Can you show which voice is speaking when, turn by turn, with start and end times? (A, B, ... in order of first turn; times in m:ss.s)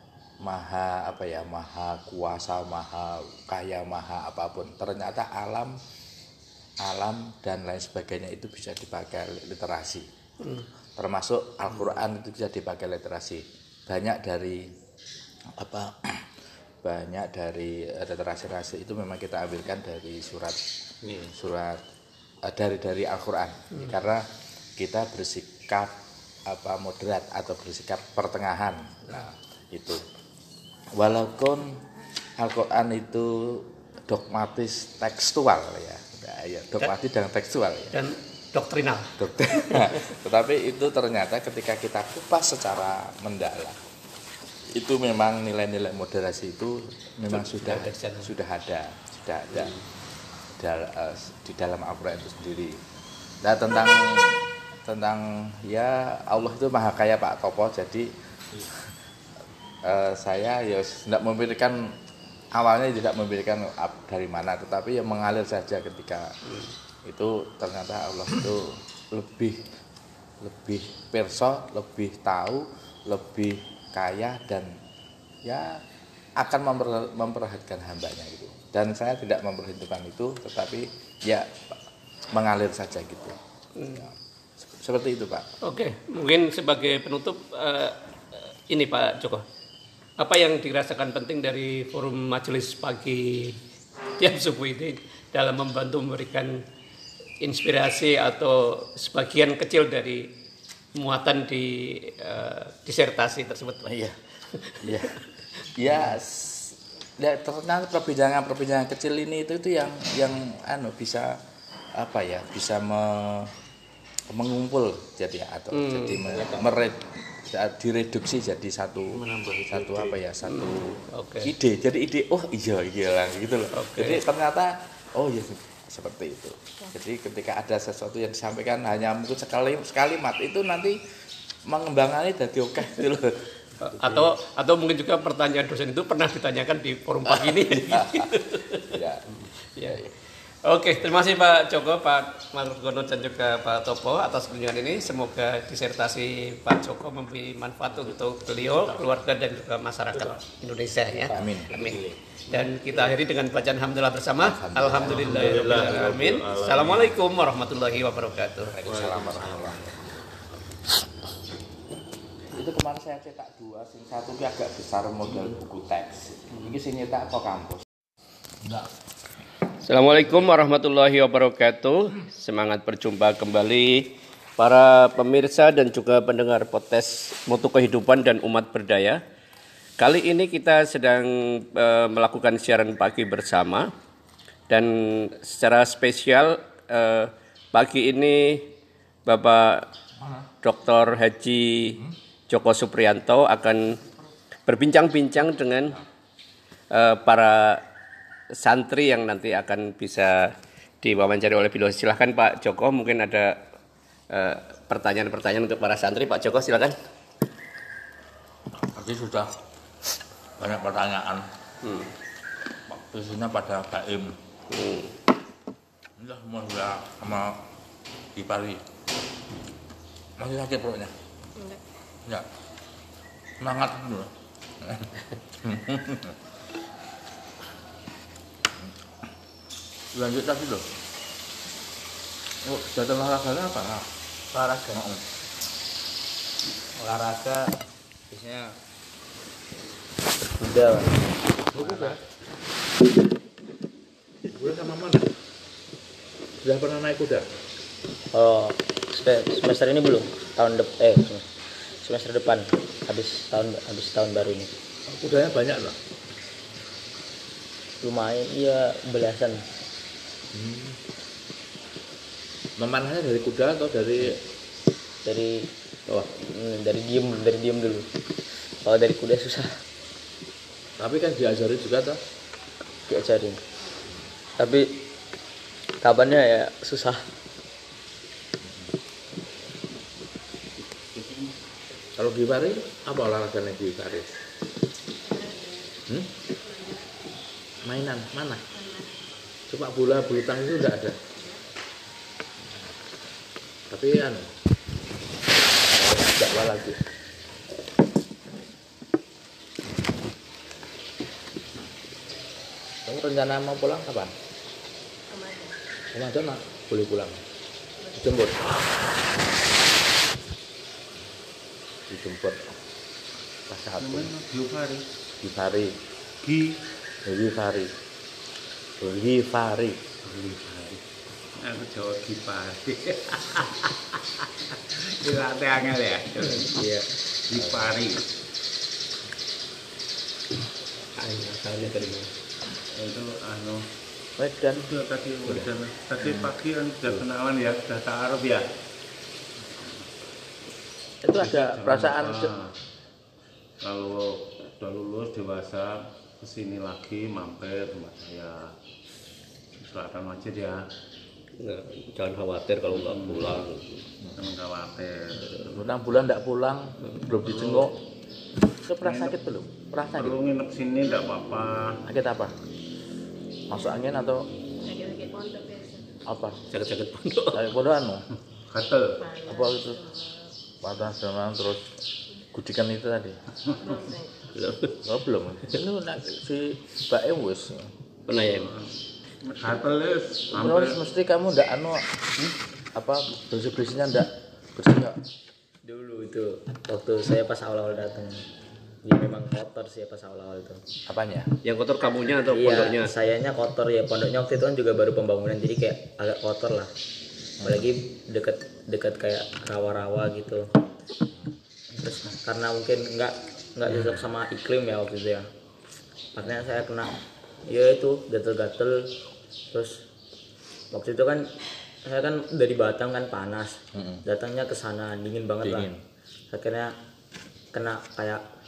0:00.4-0:05.8 A
0:06.8-0:10.1 A
0:10.4-0:10.7 B
0:11.0-0:14.7 A
0:15.5-0:16.2 A
0:16.8-0:20.6 A
0:21.0-0:21.3 C
0:21.3-0:21.8 A
0:22.4-0:24.2 A
0:24.8-0:25.9 A
0:26.4-0:30.0 A
0:30.9-0:31.8 A
0:32.4-0:38.0 A
0:37.9-0:40.1 B
0:39.2-0:43.8 A
0:44.7-0:49.7 A
0:47.3-0:48.3 B
0:50.6-0:52.8 A
0:53.4-0:58.9 A
0:59.8-1:01.8 A
1:02.5-1:06.3 A
1:06.5-1:06.7 B
1:07.0-1:09.6 A
1:10.4-1:14.7 A
1:15.4-1:15.8 A
1:16.4-1:21.8 A
1:22.3-1:23.4 A
1:23.8-1:24.0 B
1:24.7-1:25.4 A
1:25.6-1:29.4 B
1:30.2-1:33.6 B
1:34.2-1:36.6 B
1:37.4-1:40.3 B
1:40.9-1:43.9 B
1:43.8-1:44.2 A
1:44.5-1:45.1 B
1:44.8-1:45.2 A
1:45.7-1:51.4 A
1:52.0-1:53.5 A
1:54.3-2:00.9 A
1:55.7-1:56.2 B
1:56.3-1:56.7 C
1:59.1-2:00.2 C
2:00.5-2:01.5 B
2:01.4-2:11.0 A
2:03.7-2:04.2 B
2:11.7-2:14.3 A
2:13.8-2:18.9 B
2:17.3-2:19.2 A
2:19.8-2:20.0 B
2:20.6-2:32.0 B
2:31.3-2:32.0 A
2:32.5-2:39.1 B
2:34.4-2:35.6 A
2:35.0-2:37.2 C
2:38.7-2:39.9 A
2:42.5-2:47.9 A
2:49.8-2:59.2 B
3:00.0-3:03.9 B
3:04.7-3:08.7 B
3:09.2-3:09.9 B
3:10.6-3:14.0 B
3:14.7-3:16.0 B
3:16.9-3:17.8 B
3:18.6-3:23.6 B
3:24.3-3:26.9 B
3:28.9-3:29.5 A
3:30.6-3:31.5 A
3:31.8-3:32.1 B
3:32.9-3:34.4 A
3:34.7-3:35.2 B
3:36.2-3:37.6 A
3:38.3-3:38.8 A
3:40.4-3:41.2 A
3:41.6-3:41.8 D
3:43.6-3:46.4 A
3:50.1-3:50.9 A
3:52.6-3:54.1 A
3:54.5-3:55.0 E
3:54.9-3:55.2 A
3:57.0-3:57.6 E
3:58.4-3:58.6 A
4:00.6-4:01.3 E
4:01.7-4:02.2 A
4:01.8-4:02.1 E
4:04.5-4:05.3 A
4:06.6-4:07.4 A
4:08.3-4:11.4 E
4:12.0-4:14.8 E
4:15.1-4:16.0 A
4:18.0-4:19.6 E
4:20.5-4:21.0 A
4:22.8-4:24.4 A
4:25.2-4:25.7 E
4:26.4-4:28.1 E
4:28.8-4:29.7 E
4:31.0-4:32.2 A
4:33.1-4:33.6 E
4:34.6-4:34.9 E
4:36.0-4:37.2 E
4:38.6-4:38.9 A
4:41.0-4:41.5 C
4:42.2-4:44.3 A
4:45.2-4:46.0 D
4:46.6-4:47.1 D
4:47.8-4:48.6 A
4:48.8-4:49.1 D
4:49.7-4:51.2 A
4:53.9-4:54.5 A
4:55.8-4:57.0 A
5:03.0-5:04.3 A
5:05.3-5:05.8 D
5:06.1-5:07.4 A
5:08.0-5:08.5 D
5:08.1-5:08.7 A
5:12.1-5:12.7 A
5:13.7-5:14.3 A
5:14.0-5:15.0 C
5:15.4-5:16.0 A
5:16.4-5:16.8 C
5:17.2-5:17.9 A
5:19.0-5:20.0 A
5:20.2-5:21.0 C
5:21.6-5:24.0 C
5:24.7-5:26.9 C
5:26.7-5:27.9 A
5:27.5-5:28.2 C
5:31.2-5:32.3 B
5:32.9-5:33.9 C
5:34.4-5:34.9 A
5:34.8-5:38.6 C
5:36.2-5:36.5 A
5:41.2-5:42.5 A
5:41.4-5:42.7 C
5:43.8-5:48.7 C
5:49.8-5:50.9 C
5:51.6-5:53.9 B
5:52.9-5:53.7 C
5:54.4-5:55.9 C
5:55.5-5:58.0 A
5:57.4-5:57.9 C
5:58.8-6:00.4 A
5:59.0-5:59.4 C
6:00.1-6:02.0 C
6:02.0-6:02.6 A
6:03.7-6:04.4 A
6:04.8-6:06.1 D
6:06.2-6:06.6 A
6:06.7-6:07.6 B
6:07.5-6:08.2 A
6:08.7-6:09.2 C
6:09.2-6:10.5 D
6:09.4-6:10.0 A
6:10.8-6:11.8 A
6:12.5-6:13.4 A
6:13.8-6:14.4 D
6:14.5-6:15.0 B
6:15.0-6:17.9 A
6:18.3-6:18.7 B
6:18.4-6:21.0 C
6:20.5-6:22.0 A
6:22.9-6:25.2 A
6:25.8-6:28.4 E
6:29.0-6:30.8 E
6:31.1-6:31.5 A
6:31.6-6:33.1 B
6:32.5-6:36.9 E
6:37.6-6:40.7 E
6:41.9-6:45.5 E
6:46.4-6:49.1 E
6:49.7-6:50.0 E
6:50.9-6:51.5 E
6:52.0-6:55.9 E
6:53.9-6:54.2 A
6:55.6-6:56.0 A
6:56.5-6:56.9 E
6:57.7-6:58.4 E